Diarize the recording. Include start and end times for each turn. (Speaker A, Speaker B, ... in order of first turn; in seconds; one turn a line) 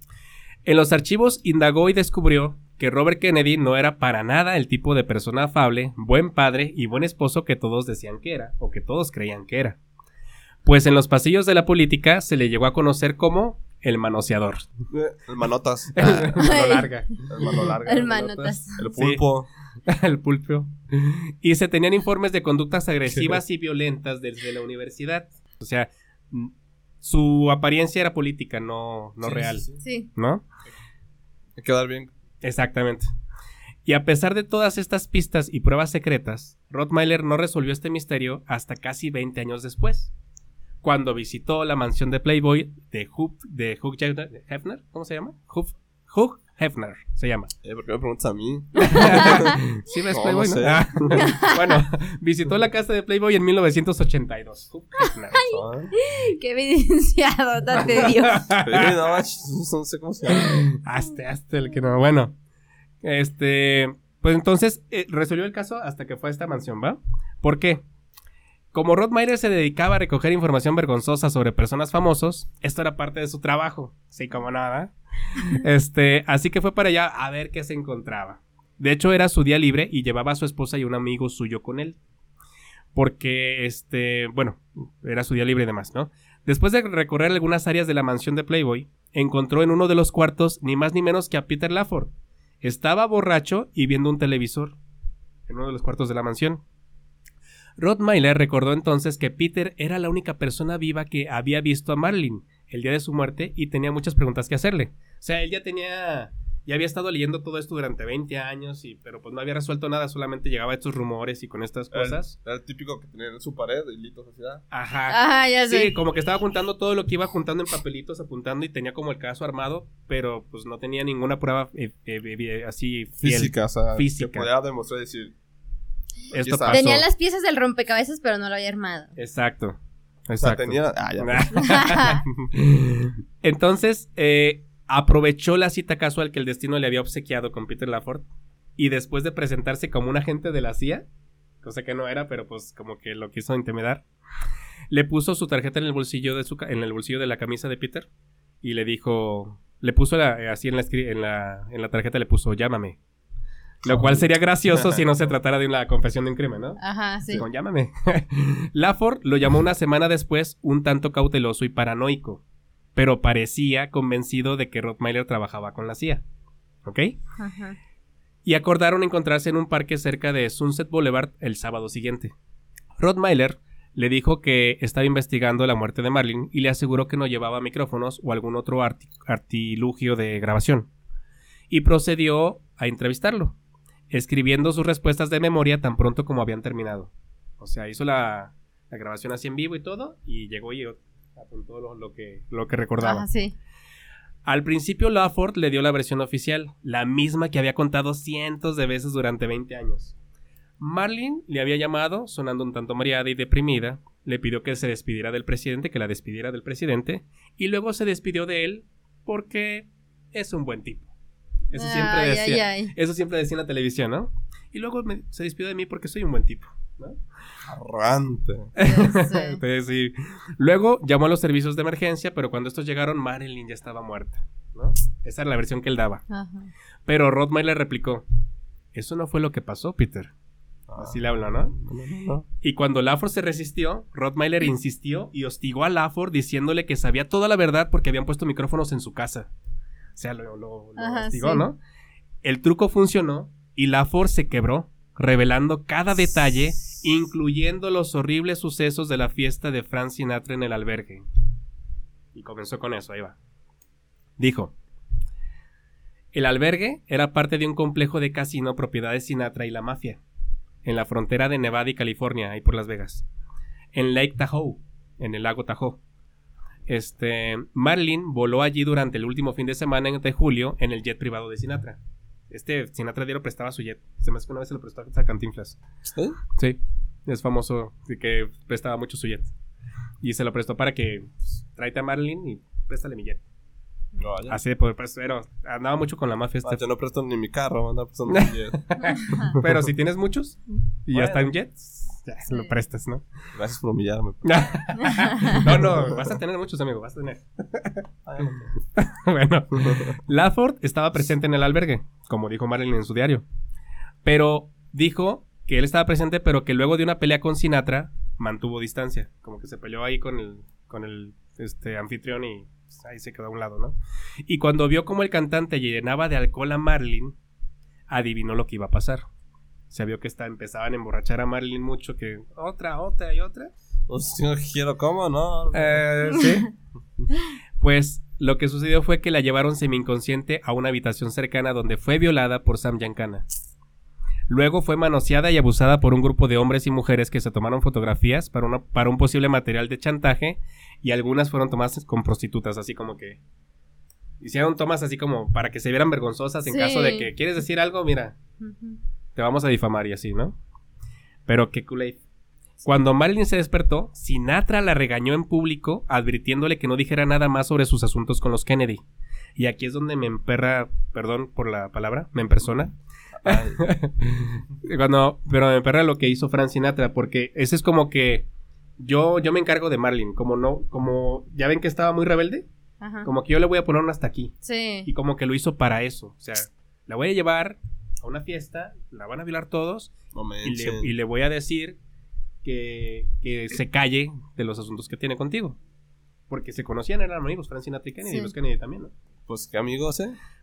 Speaker A: 0.6-9.8
Speaker A: 10.6-14.7
Speaker B: 14.9-16.4
Speaker A: 15.9-17.1
Speaker C: 16.2-17.2
Speaker B: 17.2-19.5
Speaker C: 17.8-18.9
Speaker A: 18.4-19.2
Speaker A: 19.9-30.4
Speaker B: 23.1-23.4
Speaker B: 29.2-29.8
Speaker C: 29.8-30.1
Speaker B: 31.6-32.1
Speaker A: 32.4-33.1
Speaker A: 33.8-40.1
Speaker A: 40.8-47.5
Speaker B: 47.6-51.3
Speaker A: 48.8-55.4
Speaker C: 51.2-51.8
Speaker C: 55.3-58.5
Speaker B: 55.5-55.9
Speaker A: 57.8-58.9
Speaker B: 58.6-60.6
Speaker A: 60.3-62.3
Speaker A: 63.0-67.8
Speaker A: 68.7-82.0
Speaker A: 82.9-94.8
Speaker A: 95.5-96.6
Speaker A: 97.8-112.3
Speaker B: 111.9-114.6
Speaker A: 114.7-124.5
Speaker C: 115.1-115.9
Speaker B: 123.2-125.3
Speaker B: 126.3-127.0
Speaker A: 126.3-127.0
Speaker C: 126.7-129.1
Speaker A: 129.2-141.1
Speaker B: 130.4-131.8
Speaker C: 131.6-132.2
Speaker A: 141.6-144.0
Speaker A: 144.9-148.1
Speaker A: 148.6-153.0
Speaker B: 153.8-155.0
Speaker A: 153.8-156.8
Speaker C: 156.8-157.4
Speaker A: 157.3-162.4
Speaker A: 162.9-166.2
Speaker A: 166.8-167.2
Speaker C: 167.4-167.8
Speaker A: 168.4-172.3
Speaker A: 173.0-180.9
Speaker A: 181.7-183.6
Speaker A: 184.1-193.2
Speaker C: 193.0-193.5
Speaker A: 194.4-200.1
Speaker A: 200.8-211.1
Speaker A: 211.7-217.2
Speaker C: 211.7-212.9
Speaker B: 217.7-218.7
Speaker A: 218.7-226.2
Speaker C: 218.8-219.6
Speaker C: 226.3-226.7
Speaker A: 227.1-228.2
Speaker A: 228.9-230.3
Speaker B: 230.9-232.4
Speaker A: 231.0-231.7
Speaker A: 232.6-239.5
Speaker A: 240.2-241.8
Speaker C: 241.0-241.6
Speaker A: 242.4-251.2
Speaker A: 252.3-253.4
Speaker A: 254.4-254.7
Speaker A: 256.3-260.2
Speaker A: 260.8-263.2
Speaker A: 263.9-266.0
Speaker A: 266.9-275.8
Speaker B: 276.1-276.4
Speaker A: 276.5-279.5
Speaker A: 280.2-283.4
Speaker B: 284.2-284.6
Speaker A: 284.5-286.8
Speaker B: 286.6-289.6
Speaker A: 288.3-293.2
Speaker B: 291.1-291.5
Speaker C: 292.5-292.7
Speaker B: 293.5-294.9
Speaker A: 294.4-298.0
Speaker B: 295.6-296.2
Speaker B: 298.2-298.7
Speaker A: 298.9-303.4
Speaker B: 299.8-300.1
Speaker A: 304.2-313.9
Speaker A: 314.5-317.4
Speaker A: 318.1-319.2
Speaker A: 319.9-323.7
Speaker B: 324.1-326.0
Speaker A: 325.7-326.7
Speaker A: 327.8-333.4
Speaker A: 334.5-343.4
Speaker A: 344.4-348.4
Speaker C: 346.7-347.3
Speaker C: 348.6-349.0
Speaker A: 349.4-350.6
Speaker A: 351.5-352.2
Speaker A: 352.8-359.0
Speaker A: 359.6-368.4
Speaker B: 363.3-363.8
Speaker A: 369.0-372.6
Speaker C: 373.0-373.3
Speaker A: 373.2-374.5
Speaker C: 374.6-375.1
Speaker A: 375.1-380.1
Speaker B: 380.3-381.1
Speaker A: 380.6-382.0
Speaker A: 382.6-385.8
Speaker A: 386.5-389.1
Speaker C: 388.3-388.5
Speaker B: 389.5-390.4